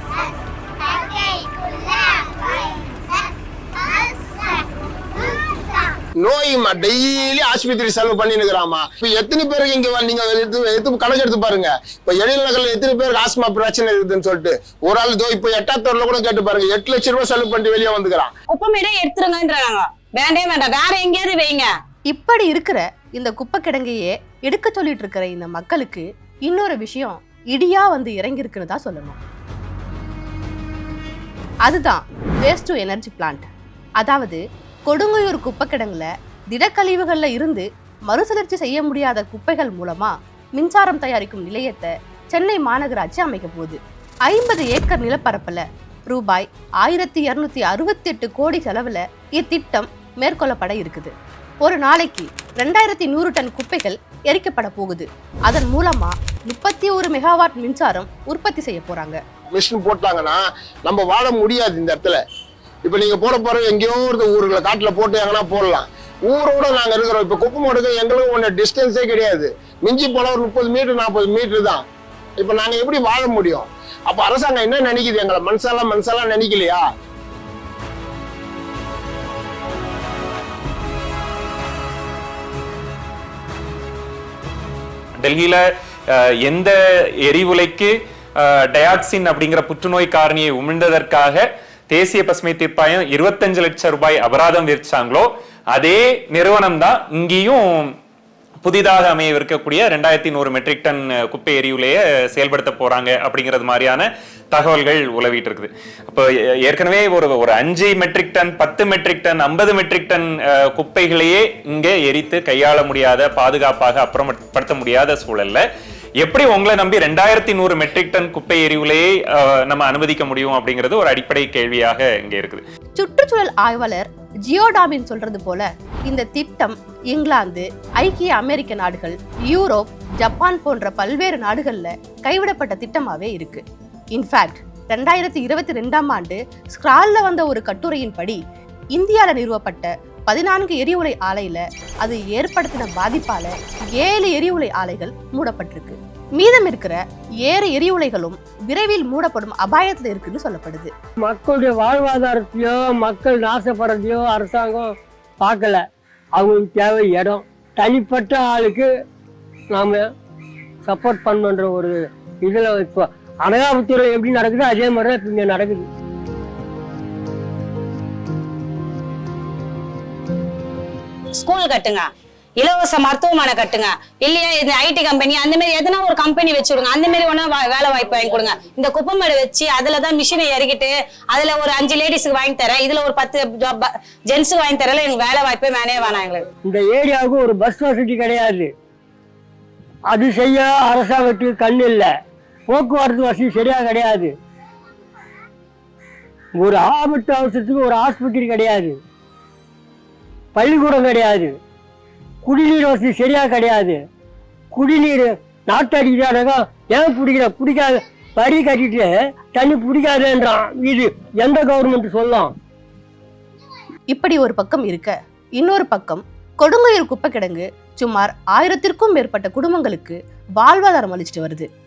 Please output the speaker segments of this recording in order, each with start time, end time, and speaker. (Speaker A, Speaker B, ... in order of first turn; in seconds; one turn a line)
Speaker A: 6.2-18.3
Speaker B: 18.5-21.7
Speaker C: 22.1-29.2
Speaker C: 31.7-33.5
Speaker C: 34.0-51.1
Speaker C: 51.6-59.2
Speaker A: 59.5-62.2
Speaker A: 62.9-71.8
Speaker A: 72.4-76.8
Speaker D: 85.2-97.9
Speaker D: 98.6-115.6
Speaker D: 116.2-122.6
Speaker C: 123.0-133.6
Speaker C: 134.1-138.4
Speaker C: 138.9-150.9
Speaker E: 151.2-155.8
Speaker E: 156.4-158.9
Speaker E: 159.7-160.0
Speaker E: 160.8-165.9
Speaker B: 171.4-186.4
Speaker E: 186.7-188.7
Speaker E: 190.1-192.1
Speaker E: 192.7-194.3
Speaker E: 196.6-199.0
Speaker E: 200.6-201.5
Speaker E: 202.4-204.0
Speaker E: 204.7-212.5
Speaker C: 214.1-221.7